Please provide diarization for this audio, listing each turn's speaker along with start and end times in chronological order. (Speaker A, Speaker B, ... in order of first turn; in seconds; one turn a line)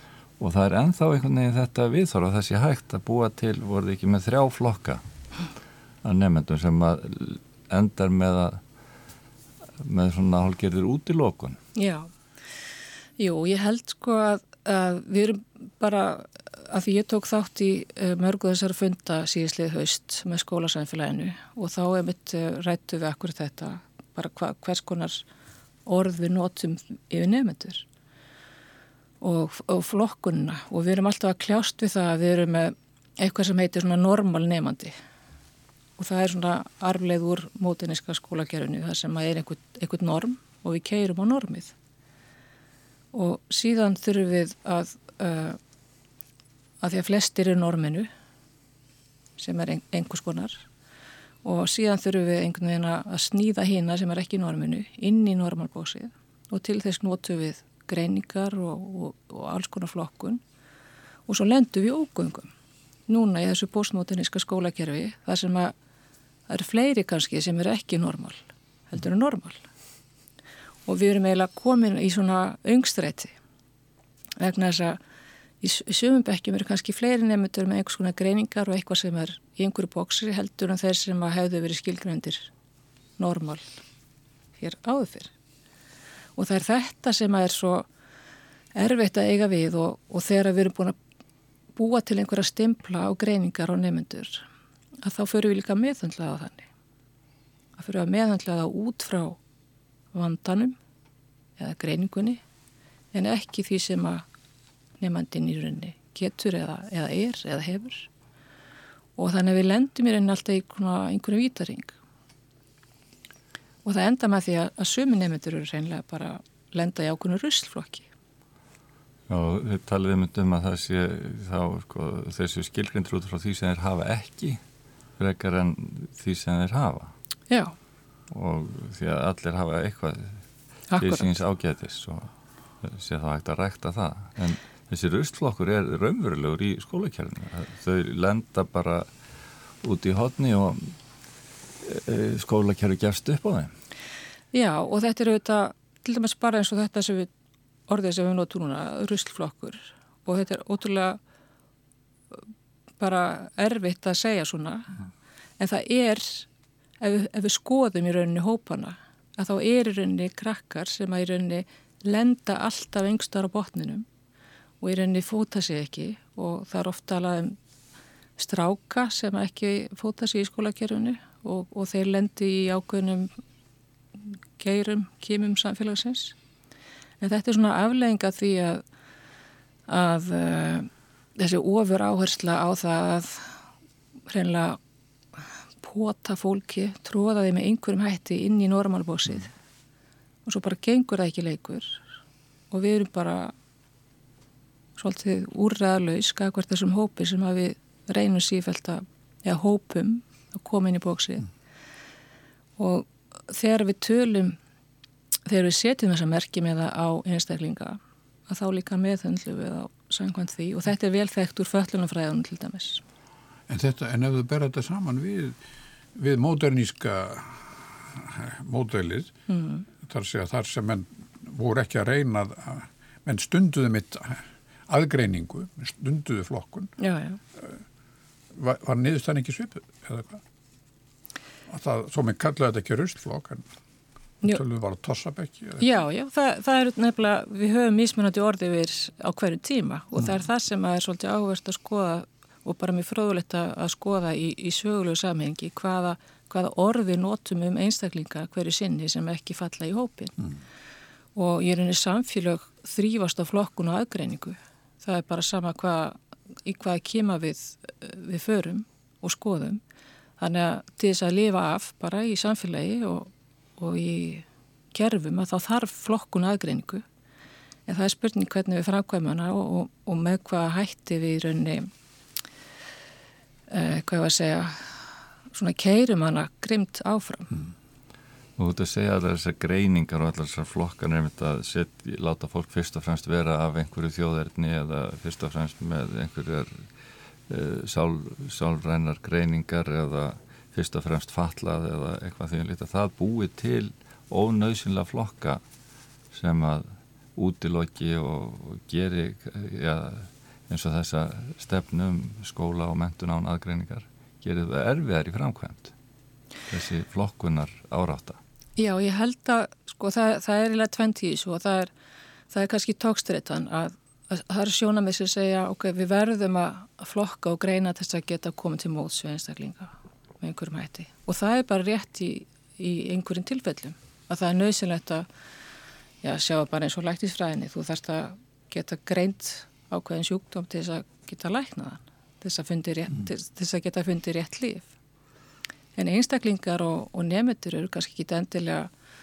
Speaker A: 0.4-5.0
Speaker A: 6.0-8.6
Speaker A: 9.8-11.6
Speaker B: 11.7-12.1
Speaker B: 13.2-25.2
Speaker B: 25.9-27.9
Speaker B: 29.2-34.9
Speaker B: 36.0-41.7
Speaker B: 43.1-45.6
Speaker B: 46.8-48.1
Speaker B: 49.4-50.6
Speaker B: 51.4-60.4
Speaker B: 61.3-62.5
Speaker B: 63.1-65.7
Speaker B: 66.5-69.7
Speaker B: 70.8-73.3
Speaker B: 74.4-75.0
Speaker B: 75.6-82.5
Speaker B: 83.2-83.7
Speaker B: 84.6-85.3
Speaker B: 86.3-87.9
Speaker B: 88.8-90.9
Speaker B: 91.8-94.5
Speaker B: 95.0-96.7
Speaker B: 97.8-99.4
Speaker B: 100.1-100.8
Speaker B: 101.6-102.4
Speaker B: 103.1-104.2
Speaker B: 105.0-108.1
Speaker B: 109.2-111.9
Speaker B: 113.8-118.1
Speaker A: 119.3-124.6
Speaker A: 125.2-127.1
Speaker B: 127.5-127.7
Speaker A: 128.3-130.4
Speaker B: 130.9-131.3
Speaker A: 131.0-132.3
Speaker A: 132.8-139.1
Speaker A: 139.8-140.9
Speaker A: 141.8-143.7
Speaker B: 144.5-147.3
Speaker B: 147.9-151.2
Speaker B: 153.0-155.0
Speaker B: 155.6-156.5
Speaker B: 157.0-164.1
Speaker B: 164.8-167.6
Speaker B: 168.4-173.3
Speaker B: 174.6-176.3
Speaker B: 177.2-178.8
Speaker B: 179.9-183.6
Speaker B: 184.3-184.8
Speaker B: 185.8-189.5
Speaker B: 190.4-192.0
Speaker B: 192.7-193.5
Speaker B: 195.0-201.5
Speaker B: 202.8-204.6
Speaker B: 205.4-213.0
Speaker C: 213.7-215.6
Speaker C: 216.2-219.3
Speaker B: 219.5-219.8
Speaker C: 220.0-226.9
Speaker B: 227.0-227.4
Speaker C: 228.5-230.4
Speaker C: 231.7-233.7
Speaker C: 234.4-235.9
Speaker B: 235.8-250.4
Speaker B: 251.3-259.8
Speaker B: 260.4-267.0
Speaker B: 267.9-271.9
Speaker B: 273.7-277.6
Speaker A: 278.6-286.9
Speaker A: 287.5-295.6
Speaker A: 296.3-305.9
Speaker A: 306.7-308.4
Speaker B: 308.8-311.9
Speaker B: 312.5-325.3
Speaker B: 326.2-334.9
Speaker B: 335.9-338.9